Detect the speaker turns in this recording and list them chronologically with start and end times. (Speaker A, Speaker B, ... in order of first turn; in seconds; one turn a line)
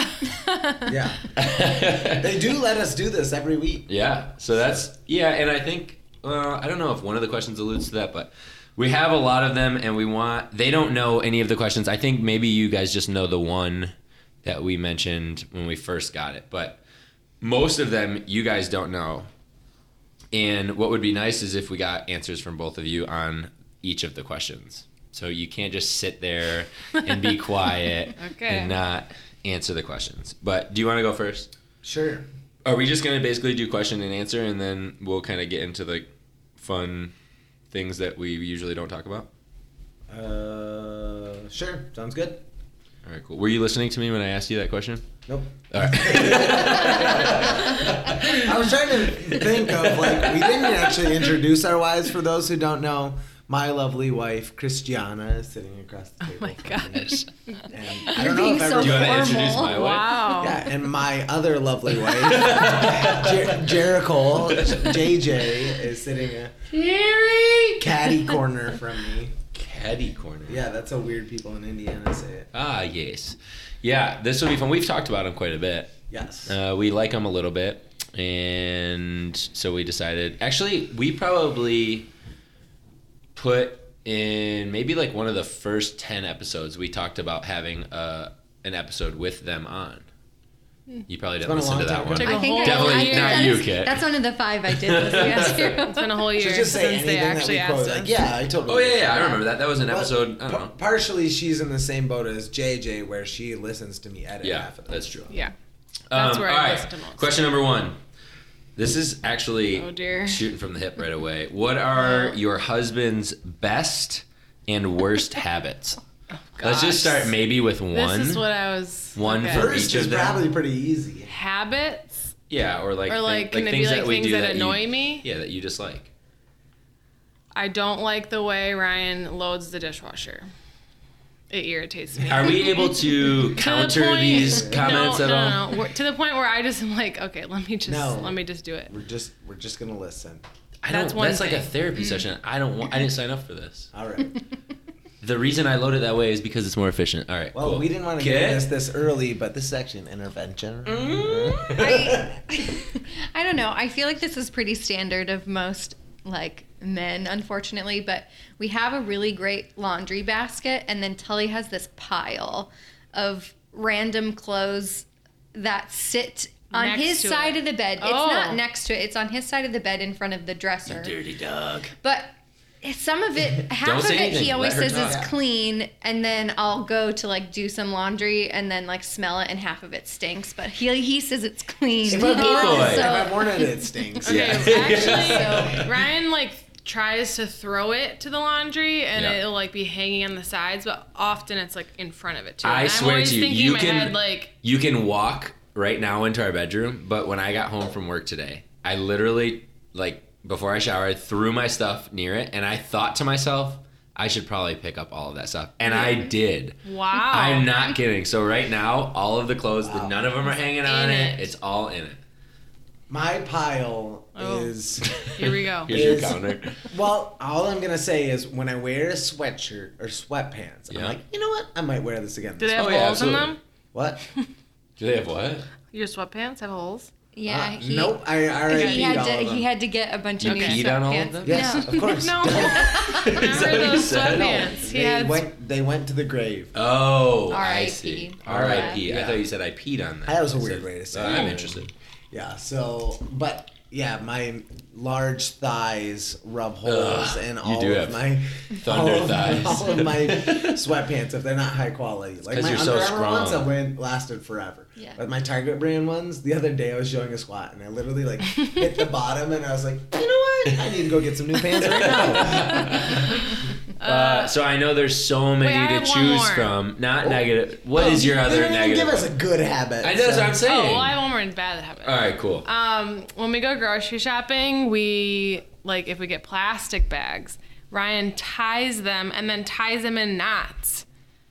Speaker A: 0.2-0.9
Speaker B: 0.8-1.3
Speaker C: 1.3-2.4
Speaker B: 2.1-3.9
Speaker C: 3.9-16.8
Speaker B: 4.5-4.8
Speaker C: 17.4-19.3
Speaker C: 20.3-31.5
Speaker A: 28.2-28.8
Speaker B: 31.8-32.3
Speaker C: 32.6-37.1
Speaker C: 37.7-39.3
Speaker B: 40.1-42.4
Speaker C: 43.0-45.1
Speaker B: 45.3-59.6
Speaker C: 45.7-51.0
Speaker A: 56.2-57.7
Speaker D: 58.1-60.0
Speaker C: 58.8-60.2
Speaker A: 59.6-60.7
Speaker B: 60.4-66.6
Speaker C: 62.0-63.7
Speaker C: 64.5-65.0
Speaker C: 66.7-67.8
Speaker B: 67.8-69.3
Speaker C: 69.5-70.6
Speaker B: 70.5-72.5
Speaker C: 72.5-82.1
Speaker B: 76.1-76.5
Speaker C: 83.3-90.0
Speaker C: 91.1-94.1
Speaker B: 91.4-92.4
Speaker A: 92.2-93.7
Speaker D: 92.2-96.2
Speaker C: 94.7-95.8
Speaker A: 95.0-98.1
Speaker B: 96.4-105.2
Speaker C: 98.7-100.7
Speaker C: 104.4-105.3
Speaker C: 106.1-108.0
Speaker A: 106.1-107.4
Speaker C: 108.8-116.0
Speaker A: 109.7-110.4
Speaker A: 112.0-112.4
Speaker A: 116.3-117.3
Speaker C: 116.6-118.4
Speaker A: 117.9-119.7
Speaker C: 119.2-120.5
Speaker B: 119.5-121.3
Speaker A: 121.3-122.3
Speaker C: 122.5-126.1
Speaker A: 123.1-125.2
Speaker A: 127.5-130.5
Speaker A: 131.5-138.9
Speaker C: 132.2-135.8
Speaker B: 134.4-135.2
Speaker B: 137.8-140.4
Speaker C: 140.8-143.9
Speaker A: 140.9-141.7
Speaker D: 142.0-142.2
Speaker B: 143.9-144.3
Speaker C: 145.2-148.7
Speaker B: 147.5-152.4
Speaker C: 150.9-151.9
Speaker D: 151.8-171.1
Speaker A: 166.7-168.6
Speaker C: 170.9-171.9
Speaker D: 172.0-183.8
Speaker C: 173.8-175.3
Speaker B: 174.9-175.3
Speaker B: 182.1-185.0
Speaker C: 182.1-183.1
Speaker A: 184.2-194.5
Speaker C: 184.3-185.9
Speaker D: 184.8-185.8
Speaker C: 192.6-212.2
Speaker A: 206.8-207.7
Speaker B: 209.8-210.2
Speaker A: 210.8-211.5
Speaker B: 213.1-215.1
Speaker A: 214.3-214.7
Speaker C: 215.0-216.9
Speaker A: 215.3-216.0
Speaker B: 215.9-223.3
Speaker C: 220.9-221.2
Speaker A: 222.6-223.6
Speaker C: 222.8-223.6
Speaker B: 223.9-224.2
Speaker C: 225.0-225.7
Speaker A: 225.9-227.1
Speaker D: 227.3-232.0
Speaker B: 227.5-229.7
Speaker A: 228.7-229.3
Speaker C: 230.4-231.7
Speaker A: 230.4-231.0
Speaker B: 231.4-233.0
Speaker A: 231.7-235.4
Speaker D: 232.7-233.4
Speaker C: 232.9-234.7
Speaker B: 234.3-236.7
Speaker C: 236.7-241.9
Speaker D: 237.5-239.0
Speaker B: 238.5-239.4
Speaker B: 240.3-263.1
Speaker A: 241.3-241.6
Speaker C: 246.8-250.8
Speaker C: 252.5-253.7
Speaker C: 261.8-269.3
Speaker A: 264.0-264.5
Speaker A: 265.6-266.8
Speaker B: 267.2-270.6
Speaker C: 270.0-271.2
Speaker A: 270.6-281.0
Speaker C: 272.0-272.7